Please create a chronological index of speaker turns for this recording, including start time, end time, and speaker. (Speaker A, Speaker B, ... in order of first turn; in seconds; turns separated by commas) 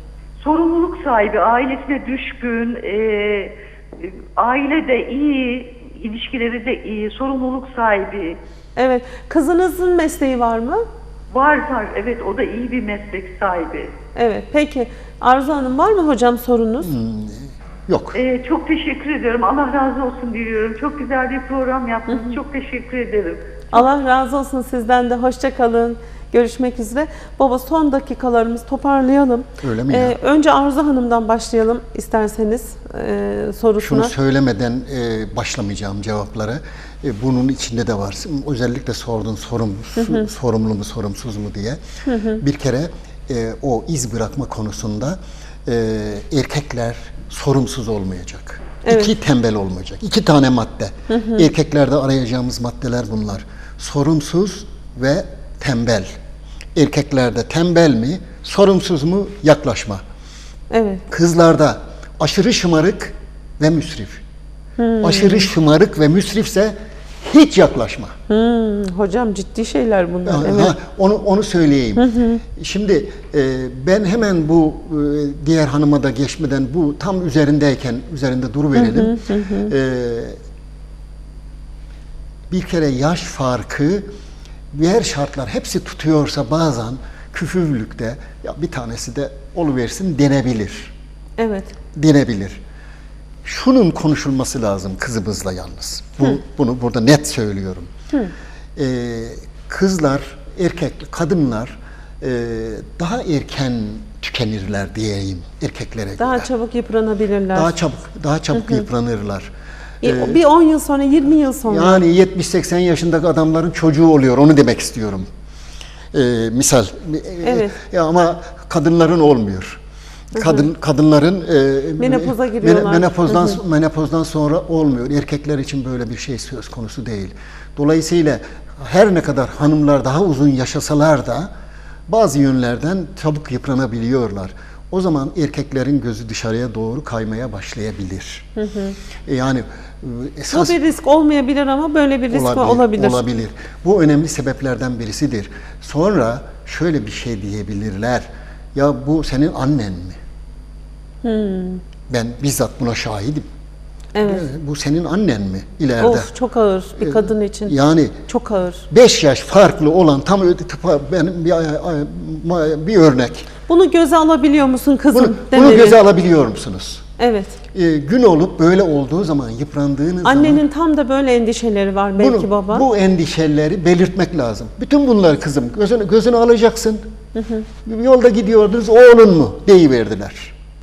Speaker A: 0.4-8.4, Speaker B: 8.8-10.8, Speaker A: 11.3-13.9, Speaker B: 14.1-16.9, Speaker C: 16.8-18.1, Speaker A: 18.1-23.4, Speaker B: 22.1-22.4, Speaker B: 23.7-34.1, Speaker C: 29.6-30.1, Speaker C: 33.8-41.8, Speaker B: 42.1-42.4, Speaker C: 42.4-56.1, Speaker B: 48.8-49.1, Speaker B: 51.1-51.5, Speaker C: 56.7-60.0, Speaker B: 60.7-61.0, Speaker C: 61.1-64.2, Speaker B: 64.8-65.5, Speaker C: 65.0-68.1, Speaker B: 68.3-70.7, Speaker C: 70.2-80.4, Speaker B: 72.0-72.4, Speaker B: 78.7-79.7, Speaker C: 82.5-84.1, Speaker C: 84.7-90.9, Speaker B: 91.4-91.7, Speaker C: 91.9-92.6, Speaker C: 93.4-97.9, Speaker C: 98.8-106.5, Speaker B: 106.2-107.7, Speaker C: 107.5-109.5, Speaker B: 108.5-108.8, Speaker B: 110.0-112.0, Speaker C: 110.0-110.4, Speaker C: 111.7-115.3, Speaker C: 116.1-119.8, Speaker B: 117.4-117.7, Speaker B: 120.3-120.7, Speaker C: 120.3-131.5, Speaker B: 122.0-123.6, Speaker C: 132.1-138.5, Speaker B: 138.6-138.9, Speaker C: 139.2-140.8, Speaker B: 140.5-143.2, Speaker C: 142.3-150.2, Speaker B: 151.2-151.8, Speaker C: 152.1-153.5, Speaker B: 154.1-154.5, Speaker C: 154.2-156.3, Speaker B: 156.0-158.8, Speaker C: 157.0-158.2, Speaker C: 158.9-163.5, Speaker B: 163.7-166.0, Speaker C: 165.1-167.0, Speaker B: 167.2-167.6, Speaker C: 167.7-170.6, Speaker B: 170.2-172.8, Speaker C: 172.2-177.0, Speaker B: 177.3-177.6, Speaker C: 177.8-180.5